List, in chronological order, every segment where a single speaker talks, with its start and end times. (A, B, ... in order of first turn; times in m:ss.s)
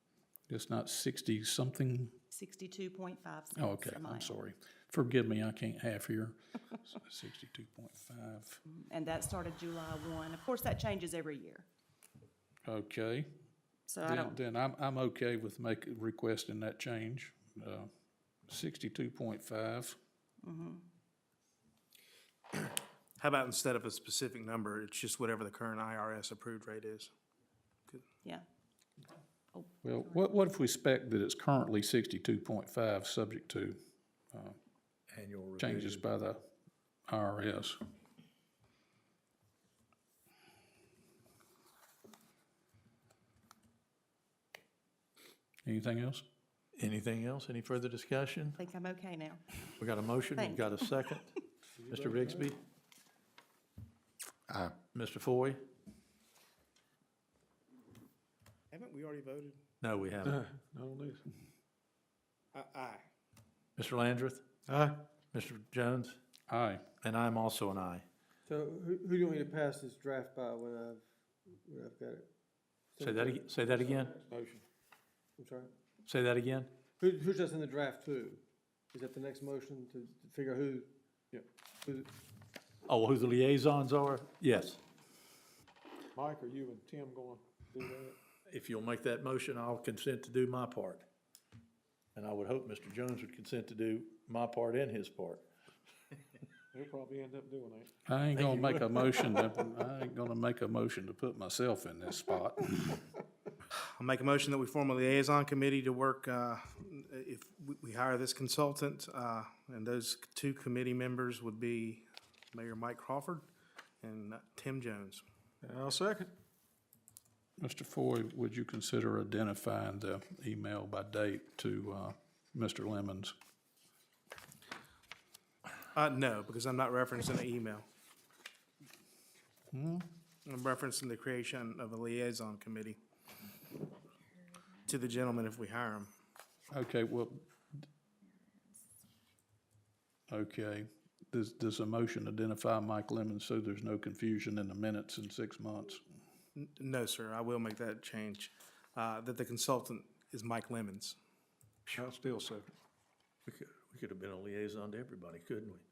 0:00.5-0:02.1 A
0:02.3-0:04.4 B
0:03.6-0:08.6 A
0:08.7-0:11.6 B
0:12.6-0:13.3 A
0:13.9-0:14.4 B
0:14.0-0:17.9 A
0:18.5-0:20.0 A
0:20.4-0:20.8 B
0:23.2-0:27.1 C
0:29.5-0:30.2 B
0:29.8-0:33.8 A
0:35.1-0:36.0 D
0:35.6-0:36.4 A
0:37.1-0:37.8 A
0:45.6-0:46.2 A
0:46.8-0:48.6 D
0:48.6-0:49.4 B
0:49.8-0:51.3 D
0:50.3-0:51.0 B
0:51.8-0:52.5 E
0:51.9-0:52.6 D
0:54.9-0:55.6 D
0:58.7-0:59.6 C
0:59.8-1:00.4 D
1:00.2-1:01.2 E
1:02.5-1:03.1 C
1:03.8-1:04.4 D
1:04.7-1:05.0 E
1:05.3-1:06.2 D
1:06.5-1:06.8 A
1:07.0-1:08.0 D
1:08.5-1:11.0 F
1:11.7-1:12.3 F
1:12.9-1:14.1 F
1:13.0-1:14.1 D
1:14.1-1:14.6 E
1:15.4-1:15.7 F
1:16.0-1:16.8 D
1:17.0-1:18.4 F
1:18.9-1:20.9 F
1:21.3-1:22.0 E
1:22.9-1:24.8 D
1:26.1-1:28.2 E
1:28.5-1:31.0 D
1:32.1-1:35.4 D
1:36.7-1:37.9 E
1:38.1-1:43.0 A
1:38.4-1:38.7 D
1:44.0-1:53.5 C
1:54.0-1:55.2 C
1:55.6-1:56.3 E
1:57.6-2:03.3 A
2:05.9-2:07.8 C
2:09.7-2:10.1 A
2:10.4-2:13.0 C
2:14.9-2:16.1 C
2:16.7-2:17.4 A
2:20.3-2:26.0 A
2:26.6-2:31.2 C
2:31.9-2:32.7 E
2:33.5-2:35.8 D